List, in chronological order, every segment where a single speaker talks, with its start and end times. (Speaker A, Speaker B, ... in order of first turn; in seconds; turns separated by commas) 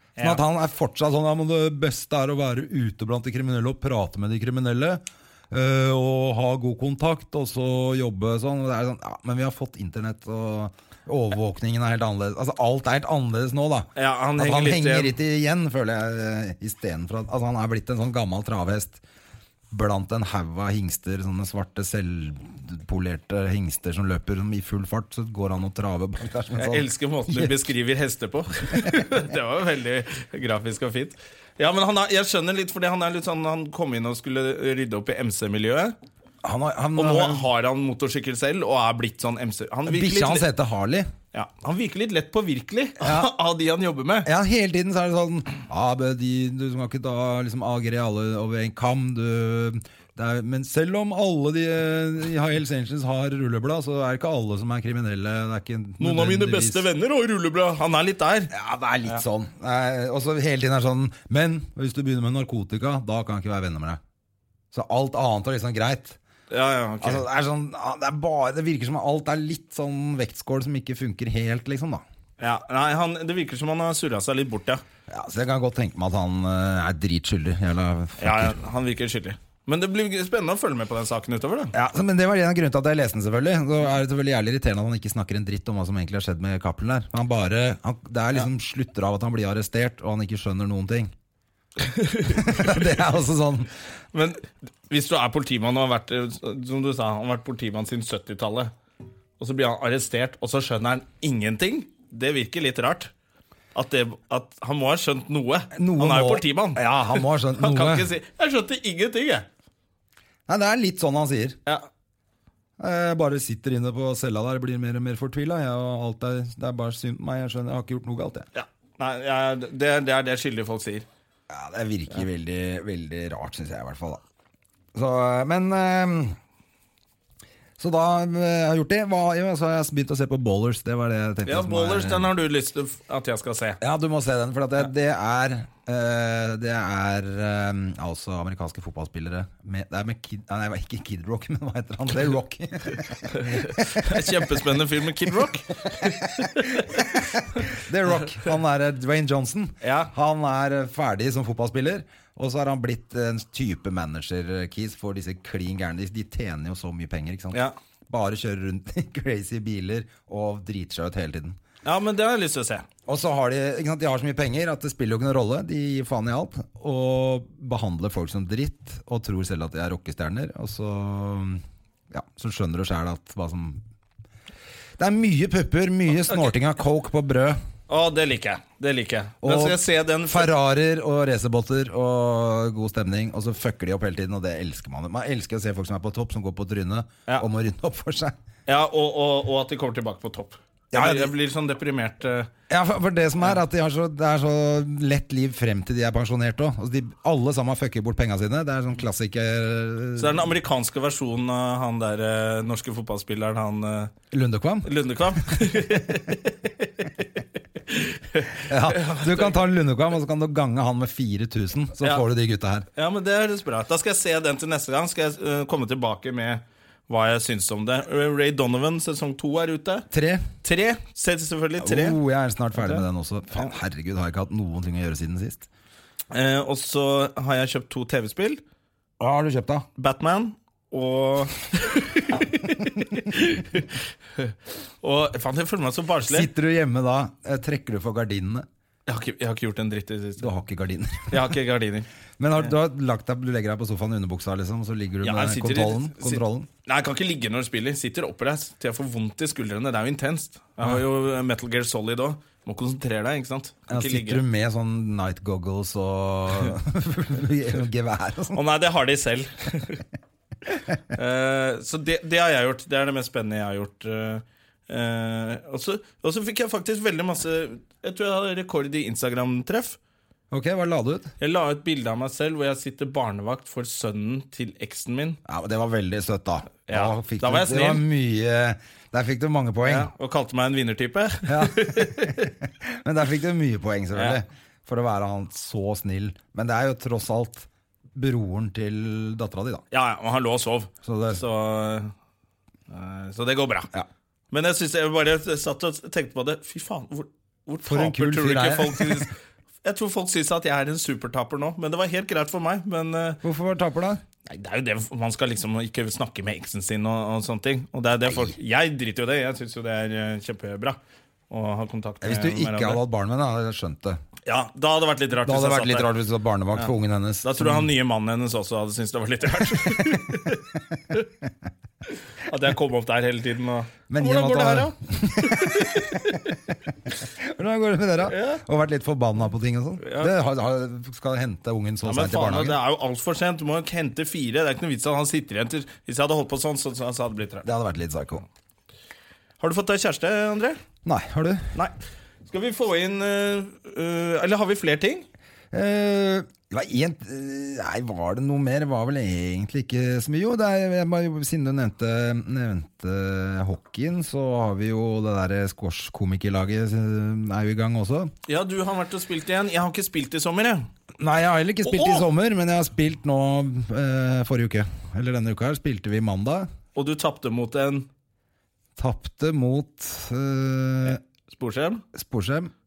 Speaker A: 0.2-0.4, Speaker B: 0.2-19.0, Speaker A: 13.9-15.1, Speaker B: 19.7-27.6, Speaker A: 26.6-35.9, Speaker B: 36.4-37.5, Speaker A: 37.0-40.5, Speaker B: 39.9-41.1, Speaker A: 41.3-44.3, Speaker B: 43.0-43.3, Speaker B: 44.2-56.9, Speaker A: 56.0-58.5, Speaker B: 58.5-64.0, Speaker B: 64.7-66.2, Speaker A: 66.5-67.2, Speaker B: 67.0-72.0, Speaker A: 72.4-74.8, Speaker B: 75.1-78.6, Speaker A: 78.2-81.7, Speaker B: 81.7-91.1, Speaker A: 91.8-92.8, Speaker B: 92.3-93.7, Speaker A: 94.1-98.7, Speaker A: 99.4-103.1, Speaker A: 103.7-109.5, Speaker B: 105.7-108.1, Speaker B: 110.5-111.6, Speaker B: 112.8-118.5, Speaker A: 118.5-121.0, Speaker B: 121.5-124.2, Speaker B: 124.9-126.4, Speaker B: 127.8-132.3, Speaker A: 131.4-133.8, Speaker B: 133.8-144.3, Speaker A: 143.3-147.0, Speaker B: 146.0-161.6, Speaker A: 149.8-150.1, Speaker A: 161.8-162.9, Speaker B: 163.1-173.8, Speaker B: 175.0-177.6, Speaker A: 177.9-180.5, Speaker B: 179.4-188.3, Speaker A: 188.7-192.5, Speaker B: 190.9-191.3, Speaker B: 192.7-200.5, Speaker A: 200.2-204.1, Speaker B: 204.3-204.9, Speaker A: 204.8-207.2, Speaker A: 207.8-209.6, Speaker B: 208.7-212.8, Speaker A: 212.9-220.1, Speaker B: 220.1-220.4, Speaker A: 220.6-222.2, Speaker B: 221.8-225.7, Speaker A: 222.8-223.0, Speaker A: 226.3-228.6, Speaker B: 229.2-229.9, Speaker A: 229.9-236.5, Speaker B: 236.3-238.7, Speaker A: 239.1-240.5, Speaker B: 240.4-241.5, Speaker A: 241.3-242.1, Speaker B: 242.4-246.7, Speaker A: 245.2-254.4, Speaker B: 253.9-258.6, Speaker A: 258.5-260.0, Speaker A: 261.1-270.0, Speaker B: 270.5-271.3, Speaker A: 271.4-275.4, Speaker B: 275.4-280.1, Speaker A: 276.9-278.0, Speaker A: 279.8-282.5, Speaker B: 281.5-289.8, Speaker A: 289.9-292.1, Speaker B: 291.0-291.4, Speaker A: 292.9-293.9, Speaker A: 294.5-303.4, Speaker B: 297.9-299.3, Speaker B: 303.4-304.2, Speaker A: 304.4-311.0, Speaker A: 311.5-313.0, Speaker B: 312.2-314.2, Speaker A: 314.4-316.1, Speaker B: 315.4-317.9, Speaker A: 317.4-321.3, Speaker A: 322.4-326.6, Speaker B: 324.1-326.4, Speaker B: 327.2-332.8, Speaker A: 328.2-328.6, Speaker A: 330.0-330.3, Speaker A: 332.0-337.6, Speaker B: 337.6-338.4, Speaker A: 339.6-340.8, Speaker B: 341.0-341.7, Speaker A: 342.4-345.3, Speaker B: 345.7-358.3, Speaker A: 358.5-360.9, Speaker B: 361.2-366.7, Speaker A: 361.8-362.2, Speaker A: 366.9-368.1, Speaker B: 369.0-371.2, Speaker A: 371.5-372.0, Speaker B: 372.1-372.7